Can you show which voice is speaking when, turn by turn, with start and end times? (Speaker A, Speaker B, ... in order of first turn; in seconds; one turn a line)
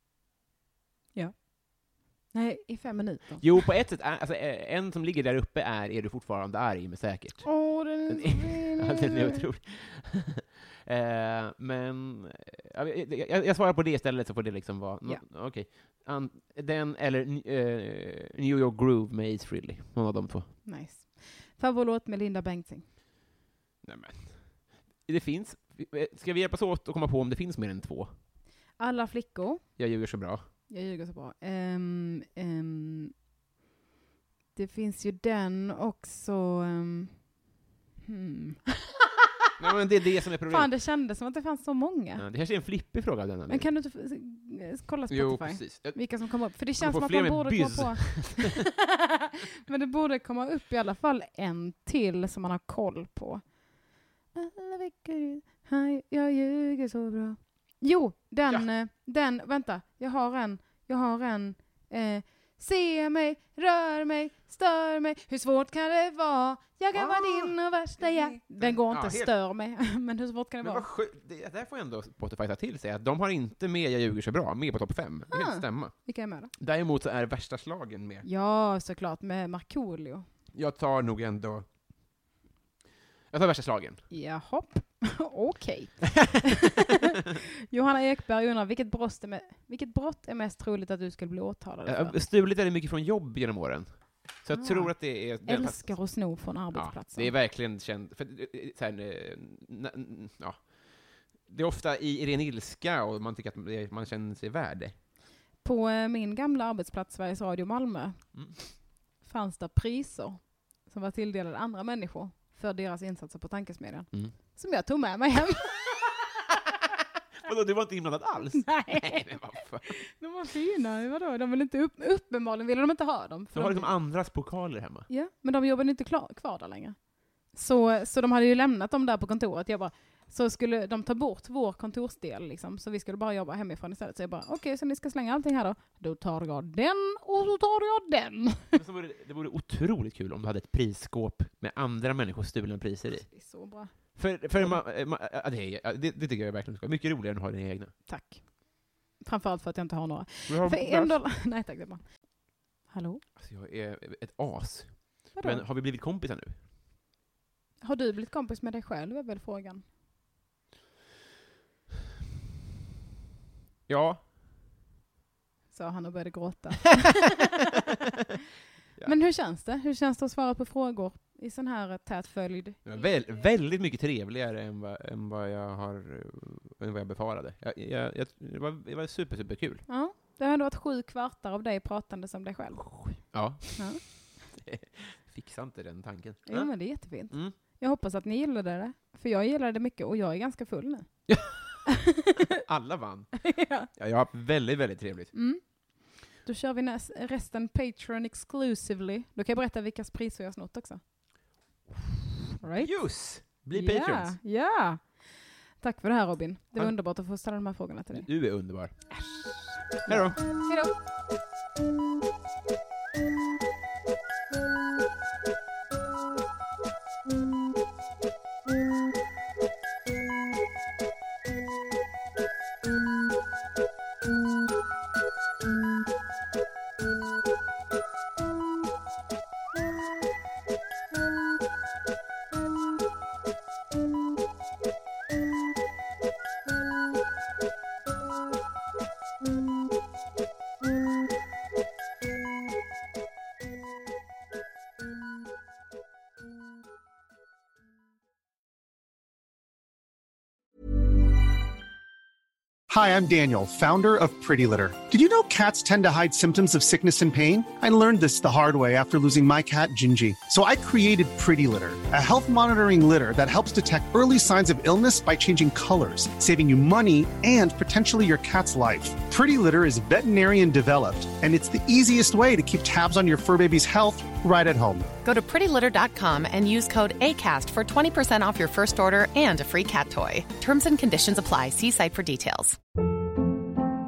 Speaker A: 1.1-3.5
Speaker B: 3.4-7.5
Speaker A: 7.4-9.4
Speaker B: 8.1-20.5
Speaker A: 20.6-22.9
Speaker B: 23.8-24.4
Speaker B: 25.0-28.1
Speaker A: 28.8-29.6
Speaker B: 29.8-30.5
Speaker A: 30.7-33.1
Speaker A: 34.5-37.2
Speaker A: 38.0-39.0
Speaker B: 39.6-40.7
Speaker A: 40.5-42.2
Speaker B: 42.2-43.7
Speaker A: 43.5-53.4
Speaker B: 45.1-46.0
Speaker B: 46.8-48.6
Speaker A: 54.3-70.8
Speaker B: 66.9-69.3
Speaker B: 70.6-75.9
Speaker A: 75.3-76.5
Speaker B: 76.6-78.2
Speaker A: 78.2-80.2
Speaker B: 80.5-81.7
Speaker B: 83.3-84.0
Speaker A: 84.1-92.2
Speaker B: 91.8-95.9
Speaker A: 94.5-97.3
Speaker B: 96.7-105.0
Speaker A: 105.6-108.2
Speaker A: 109.2-116.0
Speaker B: 117.4-120.0
Speaker A: 118.7-123.9
Speaker B: 123.5-125.1
Speaker A: 125.1-127.0
Speaker A: 127.5-138.8
Speaker B: 138.7-143.3
Speaker A: 143.3-143.9
Speaker B: 144.2-147.9
Speaker A: 148.1-148.4
Speaker A: 149.2-152.0
Speaker B: 150.5-151.1
Speaker A: 152.9-153.2
Speaker B: 153.4-156.6
Speaker A: 155.4-155.6
Speaker A: 157.8-159.8
Speaker B: 163.9-164.2
Speaker A: 165.7-167.5
Speaker A: 169.0-172.8
Speaker B: 172.8-179.8
Speaker A: 179.9-182.9
Speaker B: 182.9-183.9
Speaker A: 183.7-184.0
Speaker B: 184.5-186.7
Speaker A: 186.5-191.1
Speaker B: 187.3-187.6
Speaker B: 191.3-191.8
Speaker A: 191.8-192.4
Speaker B: 192.5-193.4
Speaker A: 193.4-193.9
Speaker B: 193.9-195.3
Speaker A: 195.3-201.0
Speaker A: 202.6-208.3
Speaker B: 202.8-204.4
Speaker B: 208.1-208.9
Speaker A: 209.1-210.9
Speaker B: 210.1-210.4
Speaker C: 252.9-275.1
Speaker D: 275.2-282.8